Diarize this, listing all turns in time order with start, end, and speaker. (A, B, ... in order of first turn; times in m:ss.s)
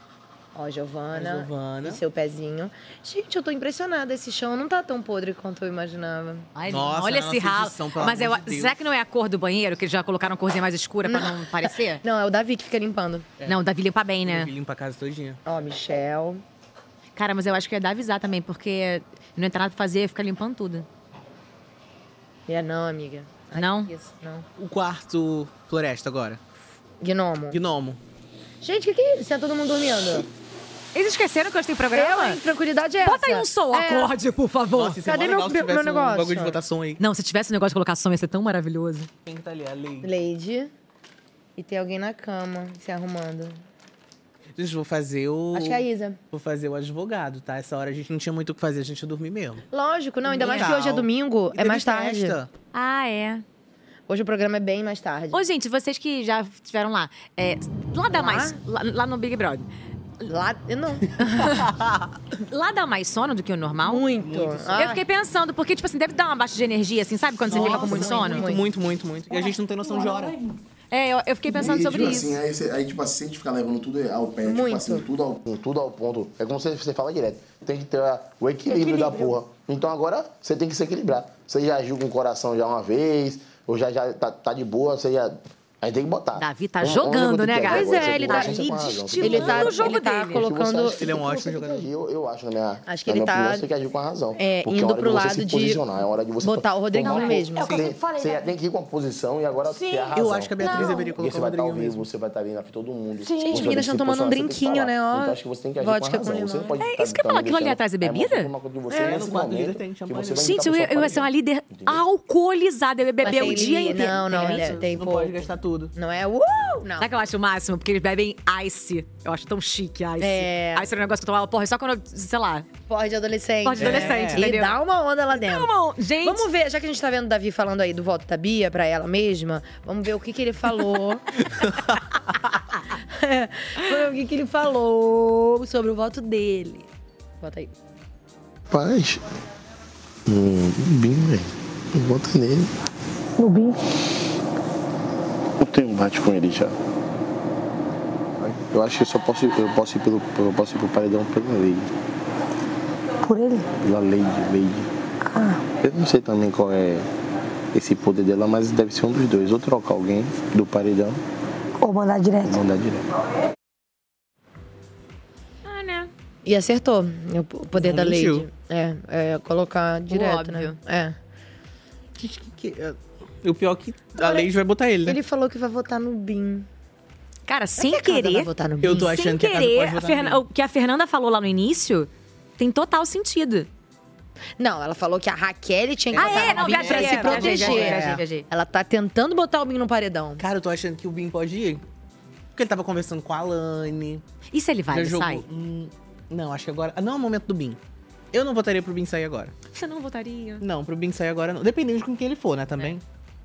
0:00.5-0:06.5 A
0:01.1-0:02.0 B
0:06.5-0:12.0 C
0:06.7-0:08.7 B
0:11.1-0:13.3 A
0:13.4-0:14.5 C
0:14.2-0:15.4 B
0:15.4-0:16.4 A
0:17.2-0:20.9 C
0:22.5-0:24.4 A
0:23.5-0:23.9 C
0:24.6-0:26.4 B
0:27.0-0:27.6 A
0:27.5-0:28.0 B
0:28.6-0:30.3 A
0:30.9-0:32.4 C
0:31.9-0:34.1 A
0:33.0-0:35.0 C
0:34.7-0:37.0 B
0:35.0-0:36.6 A
0:37.0-0:39.1 C
0:39.2-0:40.1 B
0:40.0-0:40.7 A
0:41.6-0:43.6 A
0:44.6-0:49.6 B
0:45.5-0:46.2 A
0:49.7-0:52.4 A
0:50.3-0:50.7 C
0:50.4-0:52.5 B
0:52.7-0:53.4 C
0:54.1-0:55.4 A
0:55.3-0:59.7 C
0:58.1-0:58.5 A
1:00.2-1:01.6 A
1:01.2-1:02.1 B
1:02.4-1:04.1 C
1:03.8-1:05.0 A
1:04.2-1:04.9 B
1:04.8-1:08.5 C
1:07.5-1:08.6 A
1:07.5-1:10.4 B
1:09.3-1:10.6 D
1:10.9-1:12.3 C
1:11.5-1:52.0 E
1:14.4-1:15.0 A
1:18.6-1:19.4 D
1:26.4-1:30.4 C
1:27.7-1:28.7 A
1:29.2-1:31.0 A
1:31.0-1:31.9 B
1:32.9-1:33.6 A
1:34.4-1:35.8 A
1:36.4-1:37.9 A
1:37.0-1:38.5 D
1:39.6-1:41.2 D
1:40.1-1:42.0 B
1:43.2-1:43.8 D
1:43.4-1:46.8 A
1:46.8-1:48.5 C
1:48.9-1:49.2 A
1:49.0-1:50.6 B
1:50.4-1:54.8 C
1:53.2-1:57.1 A
1:53.3-1:55.9 B
1:57.0-2:02.7 C
2:00.2-2:00.9 A
2:02.9-2:05.7 A
2:03.6-2:04.8 C
2:03.8-2:04.4 B
2:05.3-2:06.4 C
2:06.2-2:11.2 A
2:11.6-2:11.9 B
2:13.1-2:16.9 A
2:17.4-2:17.7 A
2:18.7-2:19.2 E
2:20.2-2:22.7 E
2:23.4-2:23.8 D
2:25.6-2:26.7 E
2:28.4-2:31.9 E
2:33.2-2:33.7 D
2:33.8-2:34.9 E
2:35.2-2:35.6 D
2:35.8-2:37.1 E
2:37.7-2:41.2 E
2:41.8-2:42.6 D
2:42.4-2:43.0 E
2:45.6-2:46.1 C
2:46.4-2:51.2 A
2:47.8-2:48.5 B
2:50.1-2:50.8 C
2:52.2-2:55.2 B
2:54.2-2:54.5 A
2:55.0-2:56.7 A
2:57.5-3:03.7 C
2:57.8-2:59.1 A
2:58.8-3:00.4 B
3:04.6-3:10.4 A
3:06.1-3:08.2 B
3:06.2-3:08.4 C
3:10.4-3:11.8 B
3:12.5-3:14.2 B
3:14.5-3:15.4 C
3:14.9-3:17.8 B
3:18.3-3:19.5 B
3:19.7-3:20.6 C
3:20.6-3:23.0 B